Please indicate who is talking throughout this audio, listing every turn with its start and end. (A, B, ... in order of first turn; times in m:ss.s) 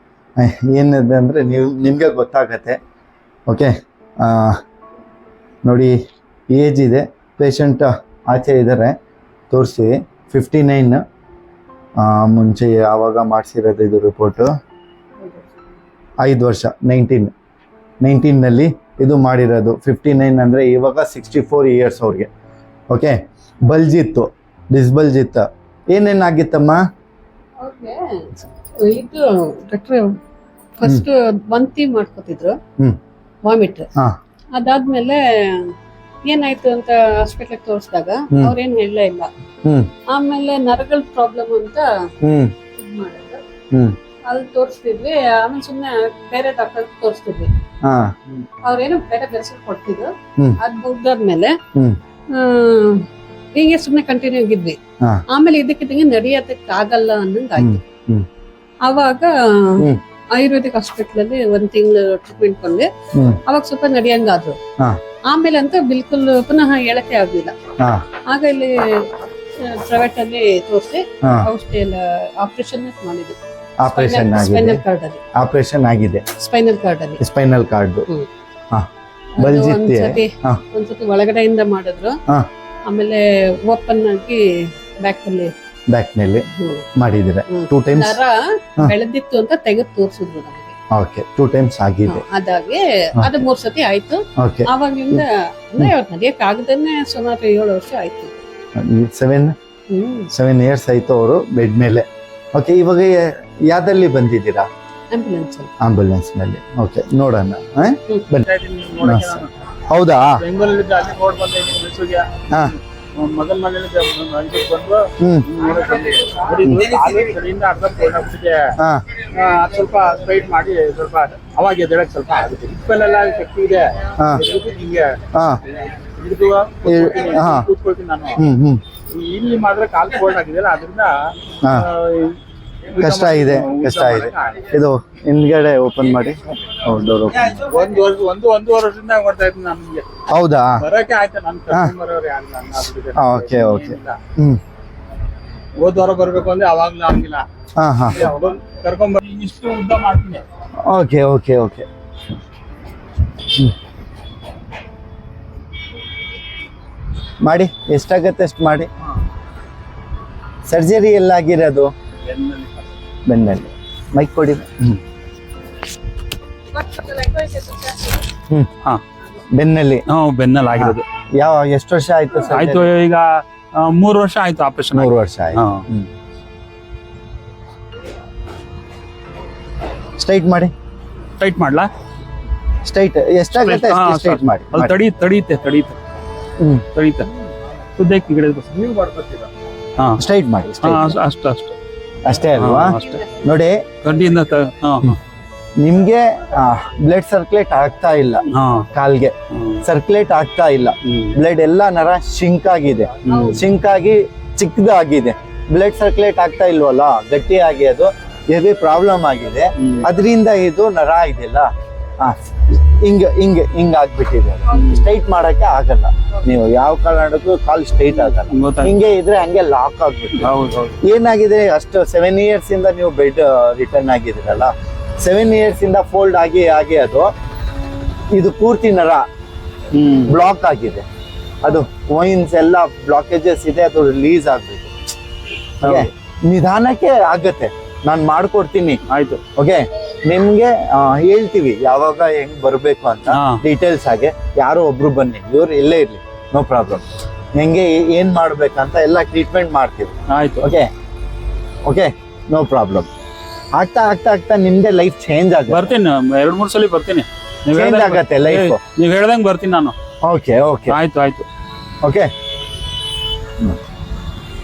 0:00.4-0:02.8 A
0:03.5-0:04.6 A
0:05.6-0:06.0 A
0:06.5-0:09.0 A
0:09.5-0:11.0 A
0:12.0-0:14.5 A
0:15.2-0:15.5 B
0:16.2-0:17.3 A
0:18.0-0:22.3 A
0:22.9-0:26.8 A
0:27.6-0:30.1 B
0:30.8-0:32.6 B
0:33.4-0:33.9 B
0:34.5-0:35.7 B
0:36.2-0:39.3 B
0:39.6-0:39.9 A
0:40.1-0:41.8 B
0:42.2-0:42.5 A
0:42.7-0:43.4 B
0:43.7-0:44.0 A
0:44.2-0:47.5 B
0:47.8-0:48.4 A
0:48.6-0:51.5 B
0:52.3-0:57.8 B
0:57.6-0:58.3 A
0:58.8-1:02.9 B
1:03.1-1:03.4 A
1:03.4-1:04.6 B
1:05.3-1:07.5 B
1:08.3-1:13.4 B
1:11.2-1:11.5 A
1:13.8-1:14.8 A
1:13.9-1:15.2 B
1:15.3-1:16.3 A
1:16.3-1:17.2 B
1:17.2-1:18.1 A
1:19.4-1:22.2 B
1:19.4-1:20.6 A
1:22.9-1:25.5 B
1:25.9-1:26.4 A
1:26.5-1:26.9 B
1:27.0-1:28.2 A
1:27.5-1:30.7 B
1:30.9-1:32.2 A
1:32.1-1:38.4 B
1:34.4-1:35.2 A
1:38.8-1:39.5 A
1:39.9-1:40.3 B
1:40.3-1:44.7 A
1:45.1-1:45.7 B
1:45.8-1:48.5 A
1:48.4-1:49.5 C
1:49.0-1:50.4 A
1:50.4-1:52.4 C
1:53.1-1:58.7 C
1:55.2-1:55.5 A
1:58.8-1:59.0 A
1:59.3-2:08.4 C
2:04.2-2:04.4 A
2:05.3-2:05.6 A
2:06.8-2:07.7 A
2:08.4-2:08.8 A
2:09.1-2:12.4 C
2:11.6-2:11.9 A
2:12.9-2:14.7 C
2:13.0-2:17.6 A
2:17.6-2:20.1 C
2:20.3-2:20.8 A
2:20.8-2:24.2 C
2:23.1-2:24.6 A
2:25.8-2:27.4 C
2:27.8-2:28.2 A
2:28.1-2:30.4 C
2:30.8-2:31.9 A
2:33.5-2:33.7 A
2:37.4-2:38.9 A
2:40.6-2:41.9 A
2:42.3-2:42.7 C
2:43.2-2:45.0 A
2:46.7-2:48.2 B
2:49.5-2:50.0 A
2:50.1-2:51.0 C
2:50.7-2:52.9 A
2:52.5-2:55.8 C
2:54.9-2:56.1 A
3:00.2-3:00.7 A
3:01.4-3:01.9 C
3:02.8-3:05.0 A
3:03.5-3:06.0 C
3:06.6-3:06.8 A
3:06.9-3:07.3 C
3:08.0-3:10.2 C
3:10.2-3:11.2 A
3:10.8-3:11.7 C
3:12.2-3:13.8 A
3:12.6-3:13.2 C
3:14.0-3:15.2 C
3:15.8-3:47.3 A
3:18.5-3:18.9 C
3:19.5-3:19.8 C
3:21.0-3:21.4 C
3:23.2-3:23.6 C
3:23.3-3:23.6 B
3:29.8-3:30.1 C
3:34.7-3:35.0 C
3:38.3-3:39.0 C
3:40.4-3:41.0 C
3:48.3-3:49.2 A
3:49.9-3:50.3 C
3:50.2-3:51.0 A
3:51.6-3:55.0 A
3:55.8-3:59.0 A
3:55.8-3:56.1 C
3:59.1-3:59.4 C
3:59.6-4:10.9 A
4:03.3-4:03.6 C
4:10.3-4:10.7 C
4:11.8-4:13.1 A
4:13.7-4:15.9 A
4:15.7-4:19.9 C
4:17.7-4:18.8 A
4:20.2-4:21.0 A
4:20.9-4:21.4 C
4:22.0-4:22.3 A